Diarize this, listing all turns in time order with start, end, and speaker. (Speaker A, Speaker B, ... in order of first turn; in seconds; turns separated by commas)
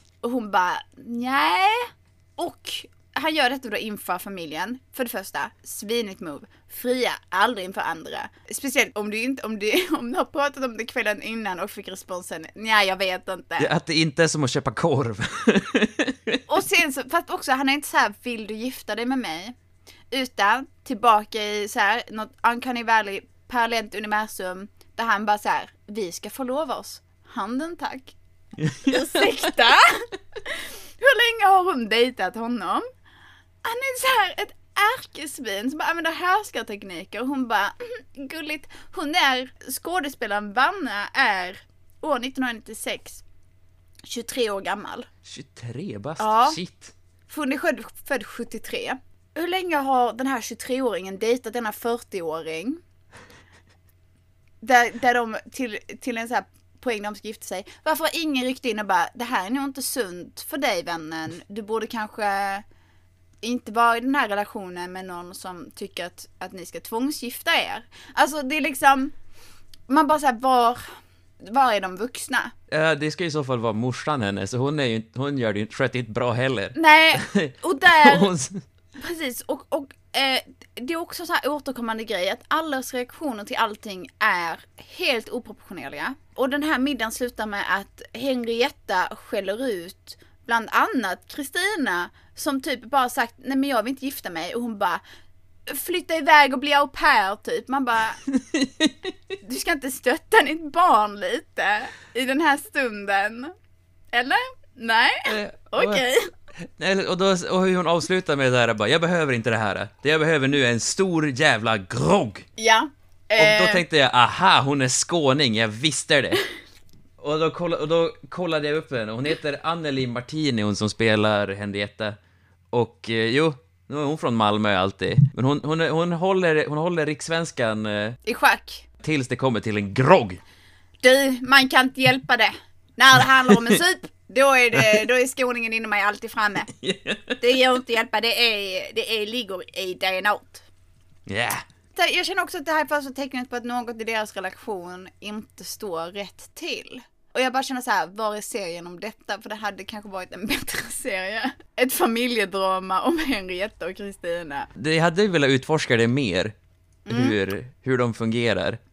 Speaker A: 0.2-13.7, Speaker B: 13.6-16.4, Speaker A: 16.5-19.5, Speaker A: 20.1-28.1, Speaker B: 28.6-29.2, Speaker A: 28.8-32.9, Speaker A: 33.6-43.2, Speaker A: 44.0-45.1, Speaker B: 45.2-46.9, Speaker A: 46.2-46.6, Speaker A: 47.3-52.8, Speaker A: 54.6-62.6, Speaker A: 63.4-69.1, Speaker A: 69.9-72.5, Speaker B: 72.7-78.6, Speaker A: 76.7-78.3, Speaker A: 79.0-95.0, Speaker A: 95.7-98.2, Speaker B: 98.3-99.1, Speaker A: 99.4-103.5, Speaker A: 104.1-106.3, Speaker B: 105.2-106.0, Speaker B: 106.6-112.5, Speaker A: 112.6-113.8, Speaker B: 113.4-116.4, Speaker B: 117.2-122.2, Speaker B: 122.7-128.2, Speaker A: 128.2-128.8, Speaker B: 129.0-130.4, Speaker A: 131.0-136.7, Speaker B: 136.7-137.4, Speaker A: 137.4-140.7, Speaker B: 141.3-141.6, Speaker A: 141.9-154.7, Speaker B: 154.8-156.5, Speaker A: 157.1-157.4, Speaker B: 157.1-158.8